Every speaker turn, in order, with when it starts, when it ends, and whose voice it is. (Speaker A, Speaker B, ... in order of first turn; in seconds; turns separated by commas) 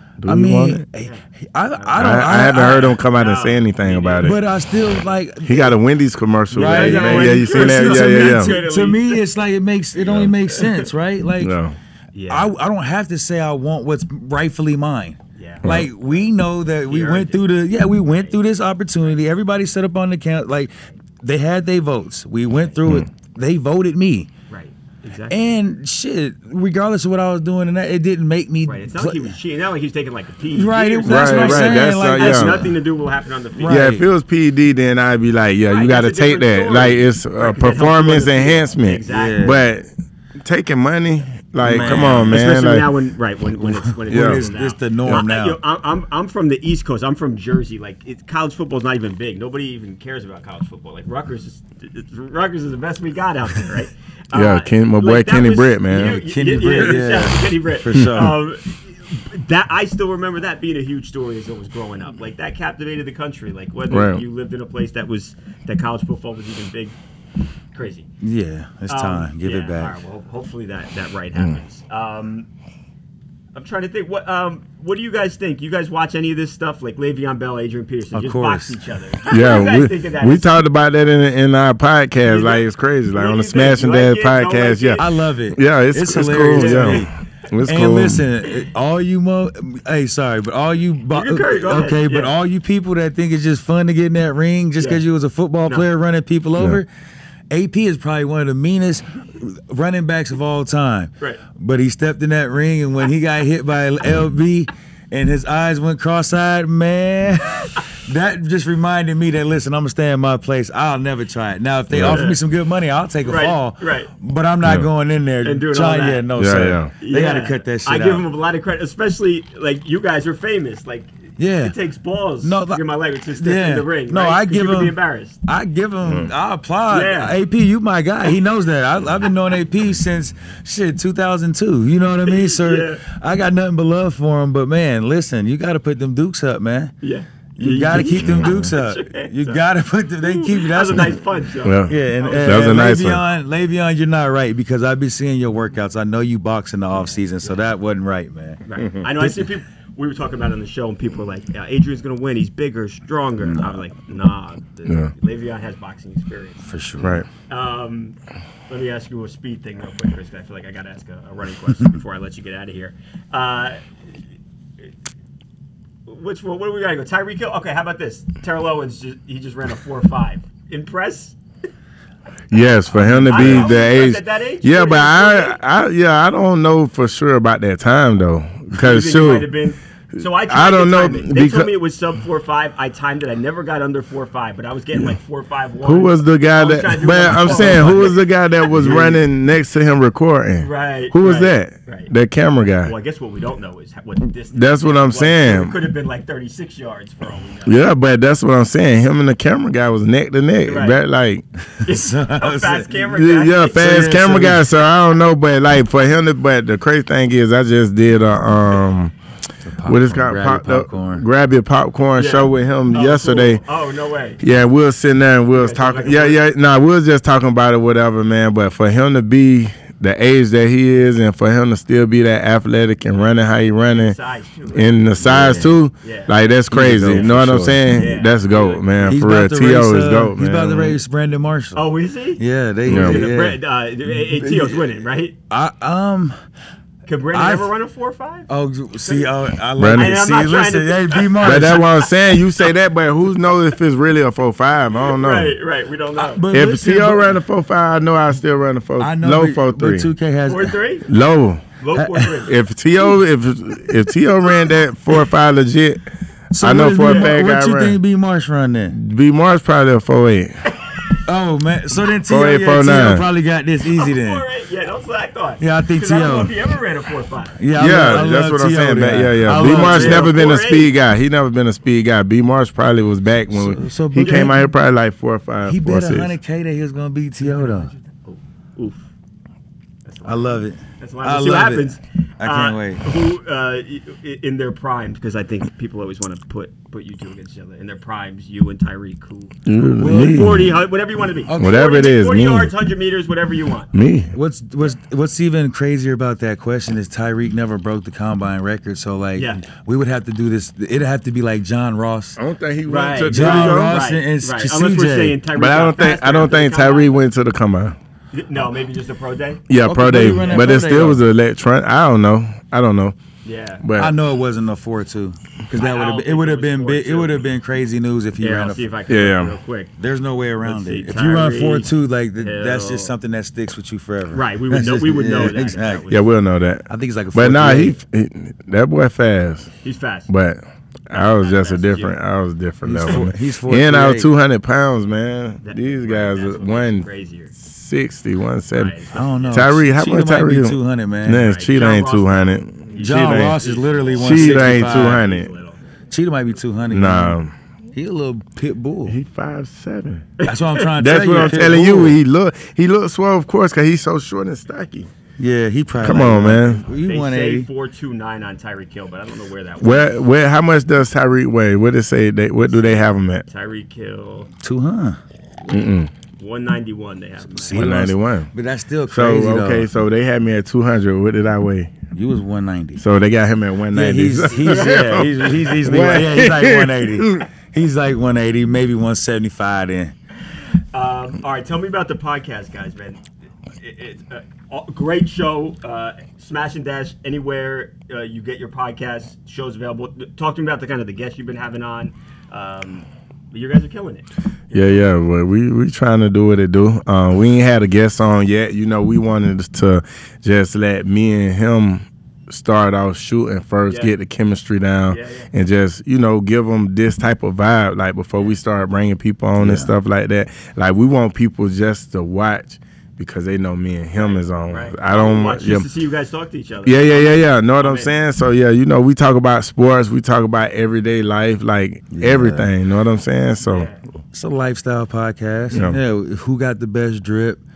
Speaker A: 0.2-0.8, Speaker B: 0.2-3.0, Speaker C: 1.0-1.2, Speaker C: 1.8-4.4, Speaker A: 2.0-4.4, Speaker B: 4.2-5.7, Speaker A: 5.4-8.6, Speaker B: 6.5-11.6, Speaker C: 6.6-9.2, Speaker C: 10.1-10.9, Speaker A: 11.4-11.8, Speaker C: 12.1-12.5, Speaker B: 12.3-24.3, Speaker C: 15.3-16.3, Speaker A: 15.6-15.9, Speaker C: 16.9-17.5, Speaker C: 18.0-18.4, Speaker C: 24.5-25.4, Speaker B: 25.3-29.4, Speaker C: 28.6-33.9, Speaker B: 30.5-32.8, Speaker A: 31.1-32.6, Speaker B: 33.5-34.0, Speaker A: 33.6-39.9, Speaker C: 35.7-39.4, Speaker B: 39.1-39.6, Speaker A: 40.4-42.9, Speaker B: 41.6-42.4, Speaker C: 41.7-67.0, Speaker B: 43.6-45.6, Speaker A: 44.1-44.4, Speaker A: 54.3-56.2, Speaker B: 56.1-58.4, Speaker A: 63.9-64.2, Speaker C: 67.7-68.1, Speaker B: 68.2-70.0, Speaker C: 68.9-72.5, Speaker C: 73.5-80.6, Speaker B: 78.1-78.8, Speaker A: 79.3-88.2, Speaker C: 82.2-85.0, Speaker B: 85.0-87.1, Speaker C: 86.5-87.1, Speaker B: 87.6-96.9, Speaker C: 91.1-92.3, Speaker B: 97.5-118.2, Speaker A: 111.9-112.2, Speaker C: 112.0-112.3, Speaker C: 113.2-114.1, Speaker A: 114.6-114.9, Speaker C: 115.4-116.3, Speaker A: 116.3-116.9, Speaker C: 117.0-125.4, Speaker B: 121.4-121.7, Speaker B: 122.4-137.0, Speaker A: 126.0-126.3, Speaker C: 126.9-127.3, Speaker C: 132.2-133.0, Speaker C: 137.0-139.6, Speaker B: 137.6-141.3, Speaker A: 138.2-138.7, Speaker C: 140.2-143.0, Speaker A: 141.6-143.2, Speaker B: 141.9-149.4, Speaker C: 148.6-156.7, Speaker A: 148.8-149.1, Speaker B: 153.4-153.8, Speaker A: 154.8-155.1, Speaker B: 156.7-157.2, Speaker A: 157.0-157.3, Speaker C: 157.5-158.2, Speaker C: 158.7-163.8, Speaker C: 166.1-171.4, Speaker A: 172.5-179.5, Speaker C: 172.9-175.6, Speaker B: 173.0-173.7, Speaker C: 178.7-189.2, Speaker A: 180.1-181.7, Speaker A: 185.8-192.9, Speaker C: 190.6-192.1, Speaker C: 192.8-197.8, Speaker A: 194.5-195.8, Speaker A: 197.7-201.4, Speaker C: 200.7-201.0, Speaker B: 201.7-203.0, Speaker C: 201.8-204.2, Speaker A: 203.1-209.1, Speaker B: 203.7-204.7, Speaker B: 209.6-211.2, Speaker A: 209.8-213.6, Speaker C: 212.2-214.4, Speaker A: 214.4-224.2, Speaker C: 215.5-216.4, Speaker C: 223.8-224.9, Speaker A: 224.7-231.0, Speaker B: 225.2-225.8, Speaker C: 226.0-226.3, Speaker B: 226.7-228.1, Speaker C: 227.9-229.2, Speaker B: 229.1-236.4, Speaker C: 231.7-235.3, Speaker A: 232.8-233.3, Speaker C: 237.1-238.5, Speaker B: 237.3-237.7, Speaker B: 238.5-241.9, Speaker A: 239.8-240.2, Speaker C: 239.9-242.0, Speaker A: 241.4-245.5, Speaker C: 245.0-246.4, Speaker B: 246.2-247.4, Speaker A: 246.5-250.1, Speaker B: 249.0-250.8, Speaker C: 250.5-251.1, Speaker A: 251.1-251.6, Speaker C: 251.8-252.6, Speaker B: 251.9-252.4, Speaker A: 252.5-256.1, Speaker B: 256.5-259.0, Speaker A: 256.6-258.0, Speaker C: 257.0-257.3, Speaker A: 258.9-260.7, Speaker C: 260.7-261.2, Speaker B: 261.2-264.4, Speaker A: 262.3-263.2, Speaker C: 263.9-268.2, Speaker B: 265.6-266.5, Speaker B: 267.6-270.3, Speaker A: 267.7-276.4, Speaker C: 269.5-270.9, Speaker B: 273.5-274.6, Speaker C: 274.2-274.6, Speaker B: 275.6-277.9, Speaker C: 277.4-279.1, Speaker C: 280.1-293.9, Speaker B: 280.2-283.0, Speaker A: 289.6-290.7, Speaker B: 290.0-290.7, Speaker B: 291.5-291.8, Speaker A: 291.6-292.7, Speaker A: 293.9-294.3, Speaker B: 294.3-302.4, Speaker C: 299.4-299.6, Speaker A: 302.4-304.0, Speaker C: 302.9-307.2, Speaker B: 303.2-305.4, Speaker A: 305.5-308.0, Speaker C: 308.3-309.6, Speaker A: 309.7-313.1, Speaker B: 309.8-311.2, Speaker C: 310.3-310.7, Speaker C: 313.4-313.8, Speaker A: 313.8-314.1, Speaker B: 314.0-318.9, Speaker C: 315.7-317.4, Speaker C: 318.4-319.9, Speaker A: 319.1-319.5, Speaker B: 320.0-326.1, Speaker C: 320.6-323.1, Speaker C: 324.3-326.3, Speaker A: 326.1-329.7, Speaker B: 326.9-327.9, Speaker C: 329.8-330.3, Speaker A: 330.3-338.9, Speaker C: 331.1-332.1, Speaker B: 332.8-334.3, Speaker C: 335.6-337.5, Speaker C: 338.7-339.7, Speaker B: 339.1-341.5, Speaker A: 339.5-343.6, Speaker C: 341.3-345.8, Speaker B: 343.0-345.2, Speaker A: 344.1-345.5, Speaker B: 346.1-347.4, Speaker A: 346.9-347.5, Speaker B: 347.9-349.2, Speaker A: 349.1-350.3, Speaker C: 350.4-350.9, Speaker B: 350.5-352.2, Speaker A: 350.9-355.1, Speaker B: 355.4-357.7, Speaker A: 356.0-356.8, Speaker C: 356.9-360.2, Speaker A: 359.8-363.4, Speaker C: 362.7-364.5, Speaker B: 364.6-365.2, Speaker A: 365.7-366.1, Speaker C: 366.4-367.9, Speaker B: 367.5-369.9, Speaker A: 367.7-368.5, Speaker A: 369.1-371.9, Speaker B: 372.1-373.0, Speaker A: 373.0-377.5, Speaker B: 373.9-380.1, Speaker C: 374.5-376.0, Speaker C: 380.9-395.1, Speaker A: 394.7-415.9, Speaker C: 403.9-404.1, Speaker C: 405.1-405.5, Speaker B: 409.6-409.9, Speaker C: 414.1-418.1, Speaker A: 416.8-423.9, Speaker B: 422.1-422.7, Speaker C: 423.6-424.0, Speaker B: 424.3-427.6